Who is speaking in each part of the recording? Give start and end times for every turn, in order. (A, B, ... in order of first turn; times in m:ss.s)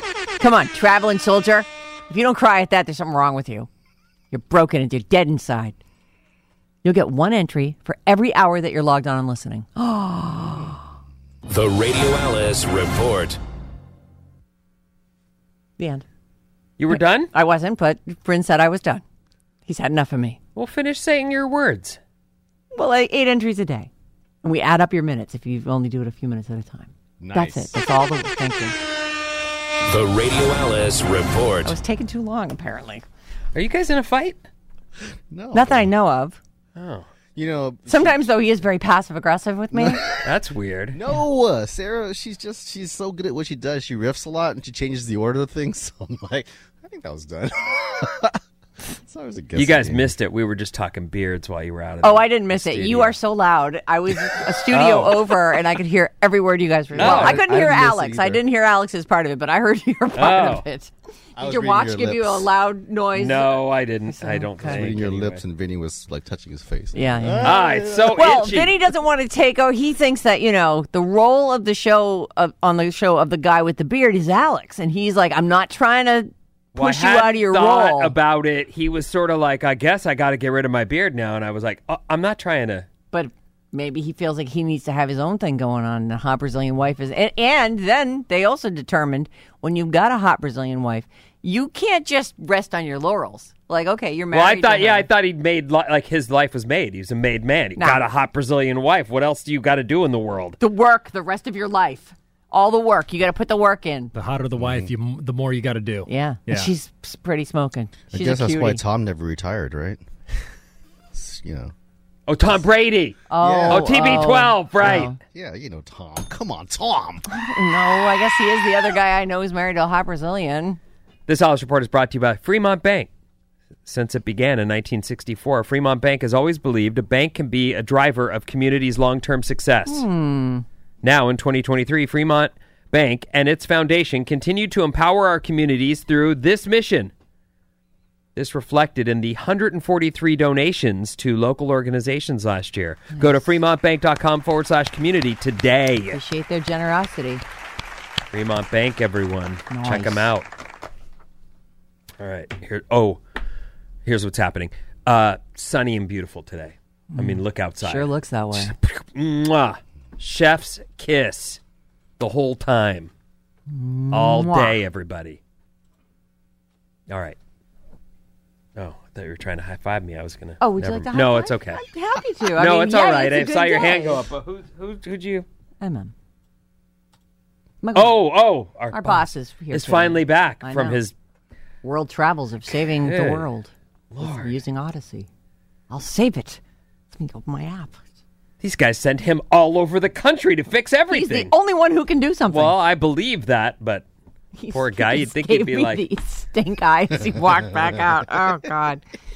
0:00.4-0:03.7 A
0:04.3-0:05.8 A
0:06.8-0:10.8 A
0:11.5-0:13.4 B
0:15.8-0:16.0 A
0:16.8-0:17.3 C
0:16.9-0:19.0 A
0:19.7-0:20.4 A
0:20.6-0:22.0 C
0:22.7-0:23.9 A
0:24.4-0:28.8 A
0:27.2-0:27.7 D
0:29.9-0:31.8 B
0:31.6-0:33.0 A
0:33.6-0:34.4 C
0:35.3-0:35.9 D
0:35.5-0:36.4 A
0:36.8-0:37.1 C
0:37.4-0:38.3 D
0:37.9-0:40.1 A
0:39.7-0:40.2 D
0:40.2-0:41.0 C
0:40.9-0:48.4 D
0:49.0-0:50.1 D
0:49.6-0:53.2 C
0:52.0-1:04.9 A
0:54.7-0:55.4 C
0:56.9-0:58.4 D
0:57.0-0:57.5 C
1:00.2-1:00.6 C
1:01.4-1:02.5 D
1:03.2-1:05.4 C
1:04.6-1:08.4 D
1:06.9-1:18.1 A
1:07.4-1:08.8 C
1:16.8-1:22.9 C
1:23.1-1:35.1 A
1:34.3-1:40.6 C
1:37.8-1:38.0 A
1:40.6-1:44.1 A
1:44.1-1:46.7 E
1:44.6-1:44.9 D
1:46.1-1:48.8 A
1:48.1-1:50.0 D
1:51.1-1:51.7 D
1:52.3-1:55.1 C
1:53.3-1:55.2 A
1:53.4-1:54.2 D
1:55.3-1:57.3 D
1:57.3-2:00.8 A
2:01.3-2:03.1 C
2:03.9-2:10.0 C
2:09.9-2:10.6 A
2:11.0-2:17.1 C
2:18.4-2:26.2 C
2:23.1-2:23.5 A
2:26.1-2:27.4 A
2:28.3-2:30.5 C
2:29.7-2:30.3 A
2:32.2-2:33.2 C
2:34.0-2:41.6 C
2:37.1-2:38.8 A
2:42.2-2:43.1 C
2:43.7-2:44.8 A
2:44.1-2:45.4 C
2:47.1-2:47.4 C
2:48.8-2:51.8 C
2:50.6-2:54.2 A
2:52.5-2:55.5 C
2:55.8-2:56.1 A
2:57.8-2:58.2 A
2:57.9-3:01.1 C
2:58.9-3:01.0 A
3:01.8-3:05.3 A
3:03.0-3:03.5 C
3:04.1-3:04.5 C
3:05.9-3:06.6 A
3:07.1-3:08.0 A
3:08.6-3:11.5 C
3:11.1-3:12.8 A
3:12.5-3:14.1 C
3:14.6-3:19.0 A
3:14.7-3:16.0 C
3:17.3-3:18.0 D